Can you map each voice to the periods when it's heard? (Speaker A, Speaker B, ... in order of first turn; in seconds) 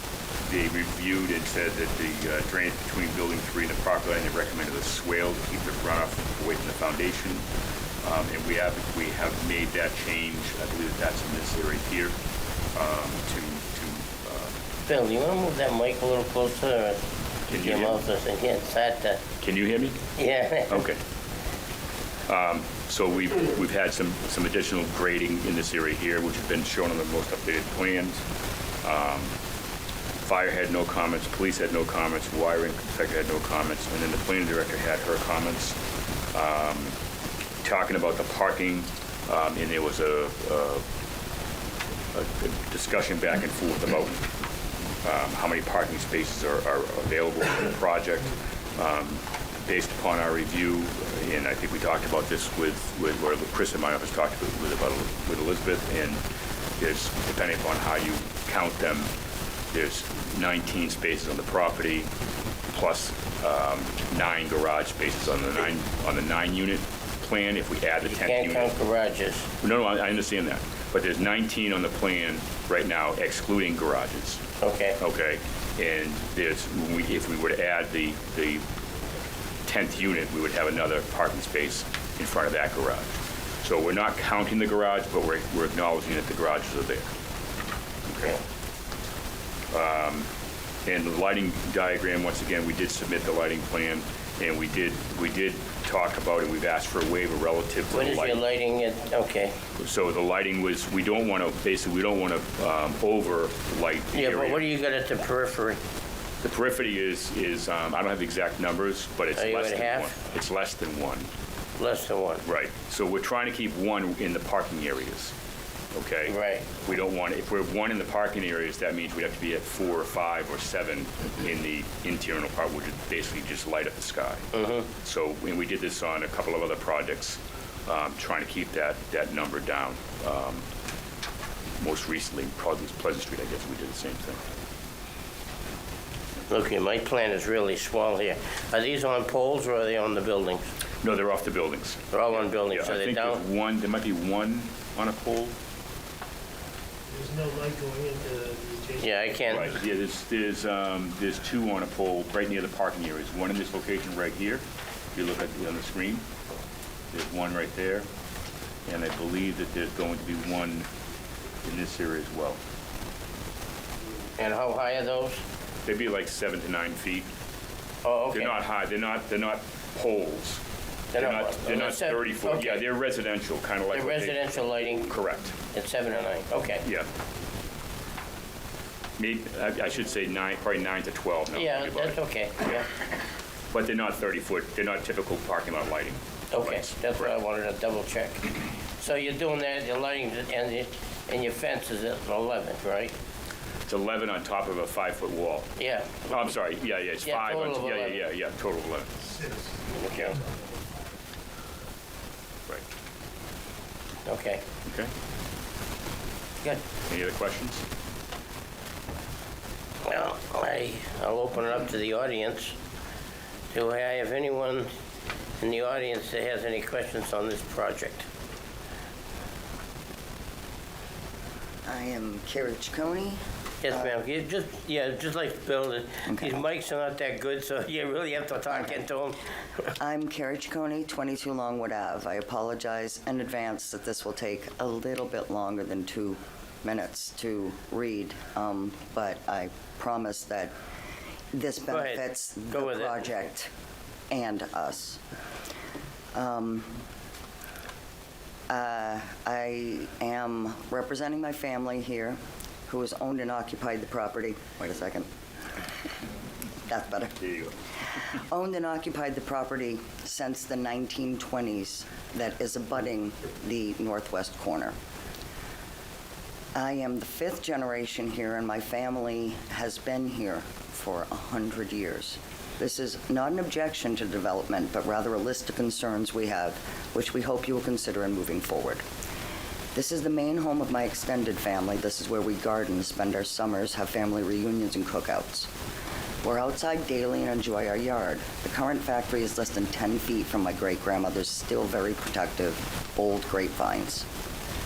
Speaker A: 0.4-7.5, 8.0-12.2, 12.7-14.5, 17.5-18.0, 19.4-20.0, 20.7-21.0, 22.3-28.2, 28.8-29.3, 30.2-35.8, 36.3-37.0, 37.6-40.8, 42.1-44.2, 45.0-56.2, 56.8-59.1, 59.7-62.1, 62.7-68.7, 69.6-74.4, 75.0-78.6, 79.7-87.1, 88.1-88.4, 89.7-90.3, 90.8-98.4, 99.8-104.6, 106.4-111.3, 112.4-115.3, 115.9-130.7, 131.8-134.4, 141.0-145.6, 149.5-154.6, 155.2-156.2, 157.1-158.1, 158.9-160.9, 161.6-162.6, 165.9-167.3, 168.3-170.6, 171.2-174.5, 175.1-175.6, 176.8-177.1, 179.2-182.2, 183.7-187.3, 193.9-195.7, 196.2-199.3, 204.9-205.1, 207.1-207.8
Speaker B: 14.9-19.2, 20.2-20.8, 68.1-69.5, 74.6-75.0, 97.9-99.6, 104.1-105.8, 109.4-110.2, 111.8-112.4, 116.3-116.7, 124.5-124.8, 136.5-140.7, 142.1-143.4, 149.0-149.7, 164.4-165.4, 168.0-168.6, 171.1-172.9, 173.9-175.1, 175.7-176.8, 181.6-182.9, 186.5-193.1, 195.8-196.2, 197.2-198.2, 199.9-200.4, 204.3-204.6, 210.1-212.8, 213.7-214.9, 215.6-218.3, 223.8-229.4, 241.9-243.2
Speaker C: 147.1-149.3
Speaker D: 221.9-224.2, 226.3-226.5, 228.7-229.0, 230.0-240.7, 241.5-243.7, 244.3-245.2, 246.3-246.9, 248.7-255.3, 256.9-257.6, 258.3-264.9, 266.8-279.0, 279.9-285.7, 286.4-294.3